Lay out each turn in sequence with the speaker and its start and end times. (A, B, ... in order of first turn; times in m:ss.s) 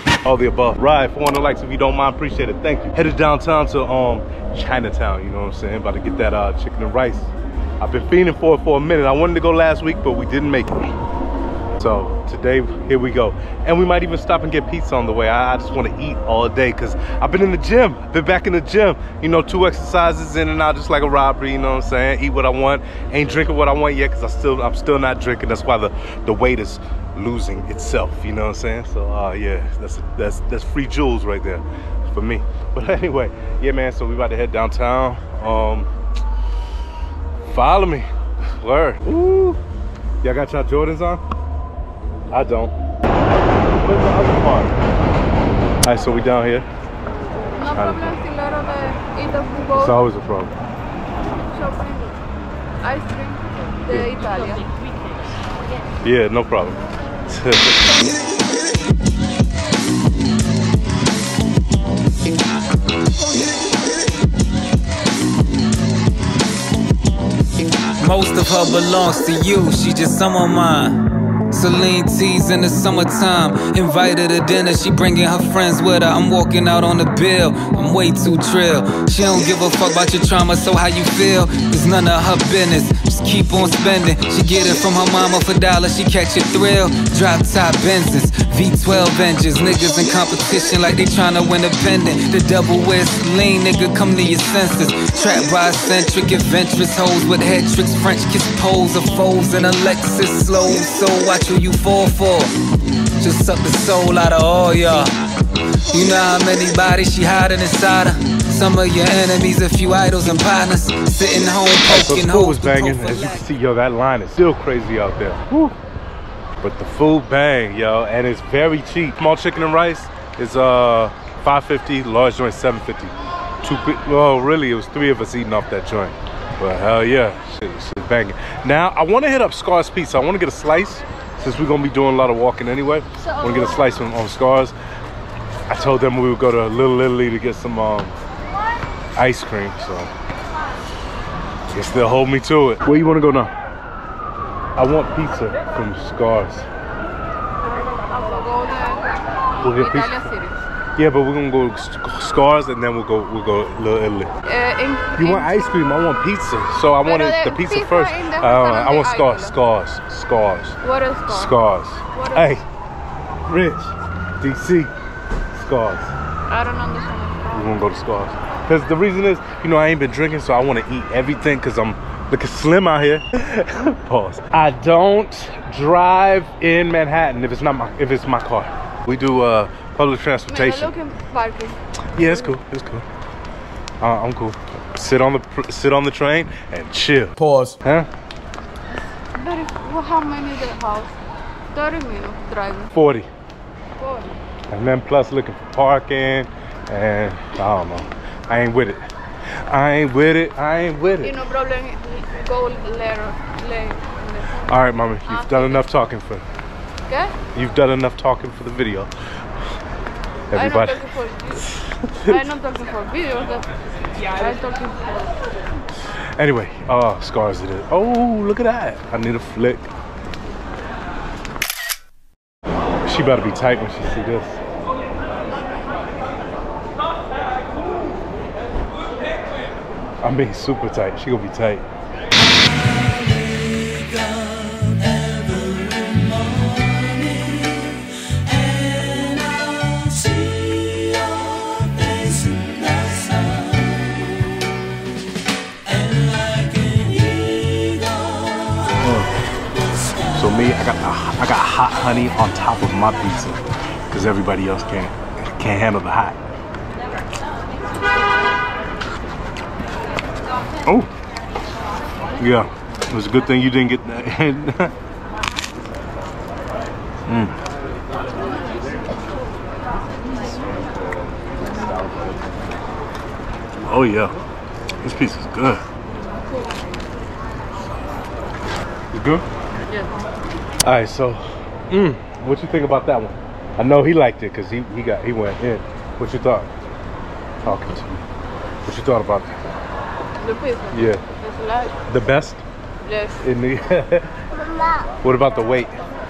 0:00.2-0:10.9 A
0:11.8-0:35.9 A
0:37.5-0:38.1 A
0:38.6-0:39.6 A
0:40.2-0:41.2 A
0:42.3-0:42.7 A
0:43.8-0:44.7 A
0:45.8-0:46.6 A
0:47.5-0:50.0 B
0:47.7-0:48.2 A
0:49.7-0:50.5 A
0:51.5-0:52.2 B
0:52.8-0:54.7 B
0:53.9-0:54.2 A
0:56.0-0:57.8 A
1:08.0-1:42.5 C
1:43.2-1:45.1 C
1:45.9-1:53.5 C
1:51.9-1:55.7 A
1:56.6-2:14.7 A
2:15.7-2:18.1 A
2:19.1-2:20.1 A
2:21.7-2:23.5 A
2:24.8-2:26.7 A
2:27.6-2:30.6 B
2:29.6-2:30.3 A
2:31.0-2:34.3 A
2:34.4-2:35.8 B
2:35.2-2:40.8 A
2:37.0-2:39.5 B
2:40.8-2:41.5 B
2:41.3-2:42.6 A
2:42.1-2:42.6 B
2:43.5-2:44.9 A
2:45.5-2:46.1 A
2:46.5-2:47.8 B
2:47.5-3:00.9 A
3:00.5-3:02.6 B
3:02.1-3:03.0 A
3:04.0-3:08.1 A
3:09.3-3:11.2 B
3:11.7-3:12.9 B
3:12.9-3:13.3 A
3:14.0-3:14.4 B
3:14.7-3:19.0 A
3:19.7-3:21.4 A
3:21.2-3:24.7 B
3:24.7-3:26.4 A
3:25.3-3:25.8 B
3:27.1-3:27.4 B
3:27.5-3:29.1 A
3:30.5-3:31.0 A
3:30.5-3:31.7 B
3:31.6-3:32.4 A
3:32.3-3:35.4 B
3:36.4-3:39.9 A
3:43.0-3:44.6 A
3:50.2-3:51.8 A
3:54.8-3:58.0 C
3:59.0-4:01.5 C
4:02.3-4:03.2 C
4:09.0-4:09.3 A
4:10.3-4:16.4 A
4:22.4-4:24.9 A
4:27.3-4:27.6 A
4:30.4-4:32.5 A
4:33.8-4:34.4 A
4:35.0-4:35.8 A
4:39.1-4:39.4 A
4:40.8-4:46.7 A
4:47.6-4:48.2 A
4:48.8-4:49.8 A
4:50.4-4:52.0 B
4:50.9-4:51.2 A
4:52.1-4:52.6 A
4:53.0-4:53.4 B
4:53.4-4:54.3 A
4:55.2-4:56.0 A